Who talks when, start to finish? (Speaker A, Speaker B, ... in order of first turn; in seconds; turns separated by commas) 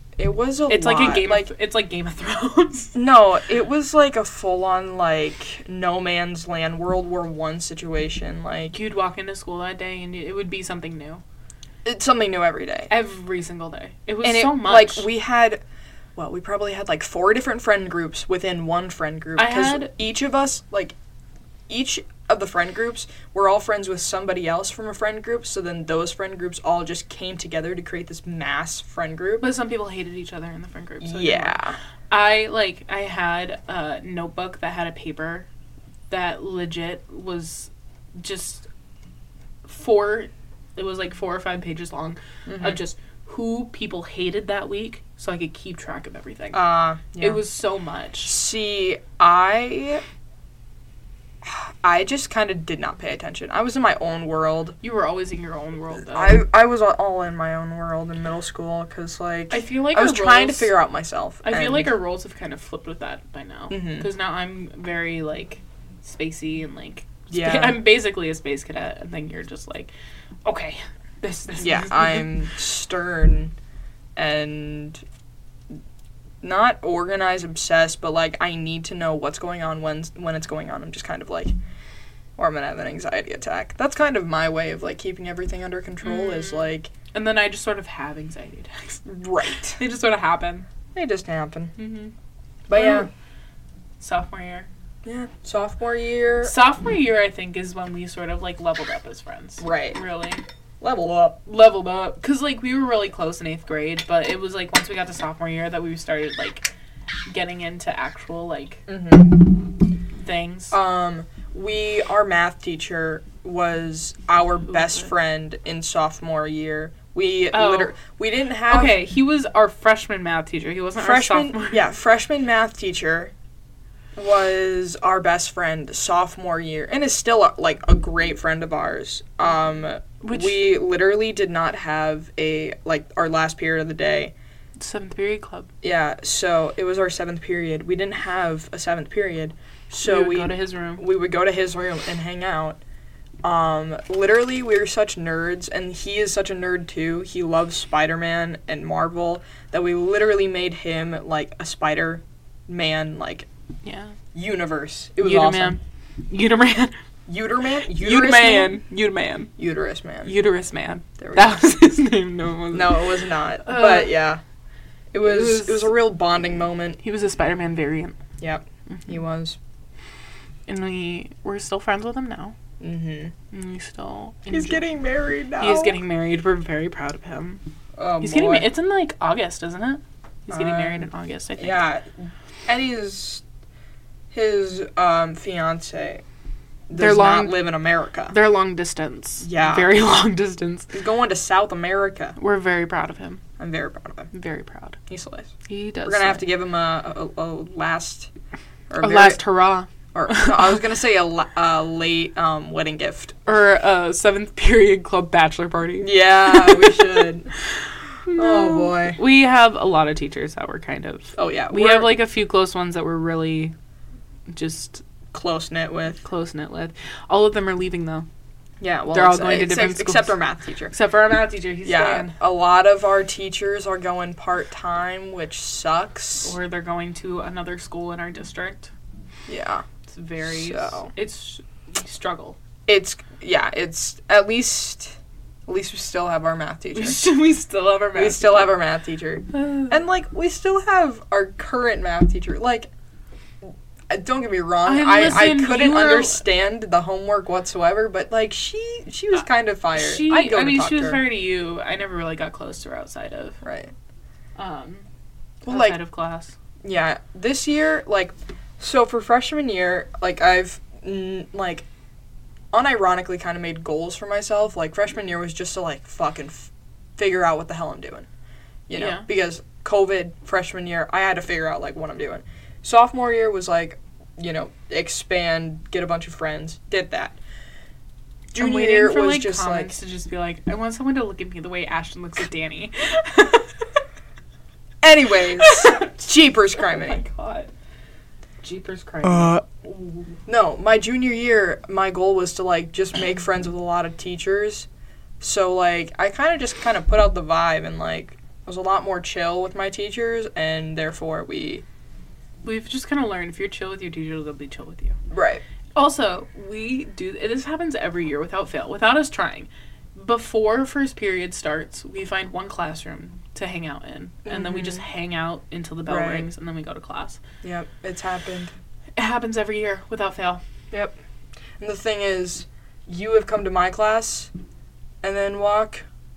Speaker A: 0.2-1.5, Speaker B: 0.7-3.0, Speaker A: 2.9-8.7, Speaker B: 8.7-11.2, Speaker A: 11.8-12.9, Speaker B: 12.9-15.1, Speaker A: 14.2-15.6, Speaker A: 16.1-20.9, Speaker B: 19.4-19.9, Speaker A: 21.7-29.5, Speaker B: 29.4-31.6, Speaker A: 31.0-31.8, Speaker B: 32.1-35.5, Speaker B: 36.1-38.7, Speaker B: 39.6-48.4, Speaker A: 42.5-42.8, Speaker A: 46.5-47.4, Speaker A: 48.2-50.0, Speaker A: 51.4-54.8, Speaker B: 54.8-56.4, Speaker A: 56.1-61.9, Speaker B: 59.5-60.7, Speaker B: 61.4-69.9, Speaker A: 63.7-64.1, Speaker A: 67.3-67.8, Speaker B: 70.4-72.3, Speaker A: 71.6-73.5, Speaker A: 74.2-75.0, Speaker A: 76.4-81.5, Speaker A: 82.4-86.9, Speaker B: 86.0-90.7, Speaker A: 89.0-89.8, Speaker A: 90.9-91.7, Speaker B: 91.8-92.1, Speaker A: 92.7-93.1, Speaker B: 92.7-93.1, Speaker B: 94.0-94.7, Speaker A: 95.0-96.5, Speaker B: 96.4-100.4, Speaker A: 99.6-100.0, Speaker A: 100.8-101.4, Speaker B: 101.5-106.7, Speaker B: 107.3-108.8, Speaker A: 108.9-109.5, Speaker B: 110.2-110.8, Speaker A: 110.7-119.0, Speaker B: 117.5-117.9, Speaker B: 118.6-121.9, Speaker A: 121.0-123.3, Speaker A: 124.2-134.3, Speaker B: 130.2-130.8, Speaker B: 134.8-135.7, Speaker A: 135.8-142.8, Speaker B: 140.0-141.0, Speaker A: 143.4-153.5, Speaker B: 153.8-154.2, Speaker A: 154.3-155.8, Speaker B: 155.2-156.9, Speaker A: 157.3-158.8, Speaker B: 157.9-159.5, Speaker A: 159.6-160.3, Speaker B: 160.2-164.2, Speaker A: 161.2-161.6, Speaker A: 162.7-164.4, Speaker A: 165.1-167.0, Speaker B: 165.2-166.0, Speaker B: 167.0-168.2, Speaker A: 168.4-169.6, Speaker B: 170.7-172.6, Speaker A: 172.8-173.3, Speaker B: 173.5-174.8, Speaker A: 174.5-176.0, Speaker B: 175.6-177.6, Speaker A: 178.0-178.7, Speaker B: 178.2-181.9, Speaker A: 180.5-181.1, Speaker A: 181.6-183.4, Speaker A: 184.3-186.2, Speaker A: 186.9-188.3, Speaker B: 186.9-187.7, Speaker B: 188.3-190.9, Speaker A: 189.4-190.0, Speaker A: 190.9-192.3, Speaker B: 192.4-193.4, Speaker A: 193.6-194.3, Speaker B: 194.3-195.0, Speaker A: 195.1-195.5, Speaker B: 195.7-196.5, Speaker A: 196.1-198.3, Speaker A: 198.9-199.4, Speaker B: 199.0-200.8, Speaker A: 200.1-203.3, Speaker B: 203.4-207.1, Speaker A: 206.0-207.5, Speaker B: 208.3-213.7, Speaker A: 208.3-209.2, Speaker A: 211.3-212.2, Speaker B: 214.5-215.0, Speaker A: 215.3-216.2, Speaker B: 216.2-218.2, Speaker A: 218.8-220.9, Speaker B: 219.1-220.3, Speaker B: 220.9-222.4, Speaker A: 221.8-226.5, Speaker B: 226.4-228.9, Speaker A: 229.5-229.8, Speaker B: 230.1-232.6, Speaker A: 230.4-231.1, Speaker A: 232.9-237.2, Speaker B: 236.9-238.8, Speaker A: 238.1-242.9, Speaker B: 239.6-239.9, Speaker A: 244.1-251.2, Speaker B: 244.8-246.4, Speaker B: 249.9-253.6, Speaker A: 253.6-253.9, Speaker B: 254.6-255.1, Speaker A: 255.6-256.0, Speaker B: 255.7-256.6, Speaker A: 256.8-261.9, Speaker A: 262.7-268.3, Speaker A: 268.9-277.4, Speaker B: 268.9-269.3, Speaker B: 278.5-283.7, Speaker A: 278.5-280.0, Speaker A: 285.0-287.2, Speaker B: 285.6-286.2, Speaker B: 286.8-287.7, Speaker B: 288.6-290.3, Speaker A: 289.2-289.6, Speaker A: 290.5-294.9, Speaker A: 295.4-301.8, Speaker B: 302.6-305.2, Speaker A: 305.3-305.6, Speaker B: 305.9-317.4, Speaker A: 314.4-315.0, Speaker A: 316.1-316.4, Speaker A: 317.6-318.7, Speaker B: 319.2-320.6, Speaker A: 320.9-321.1, Speaker A: 321.8-324.5, Speaker A: 325.2-326.1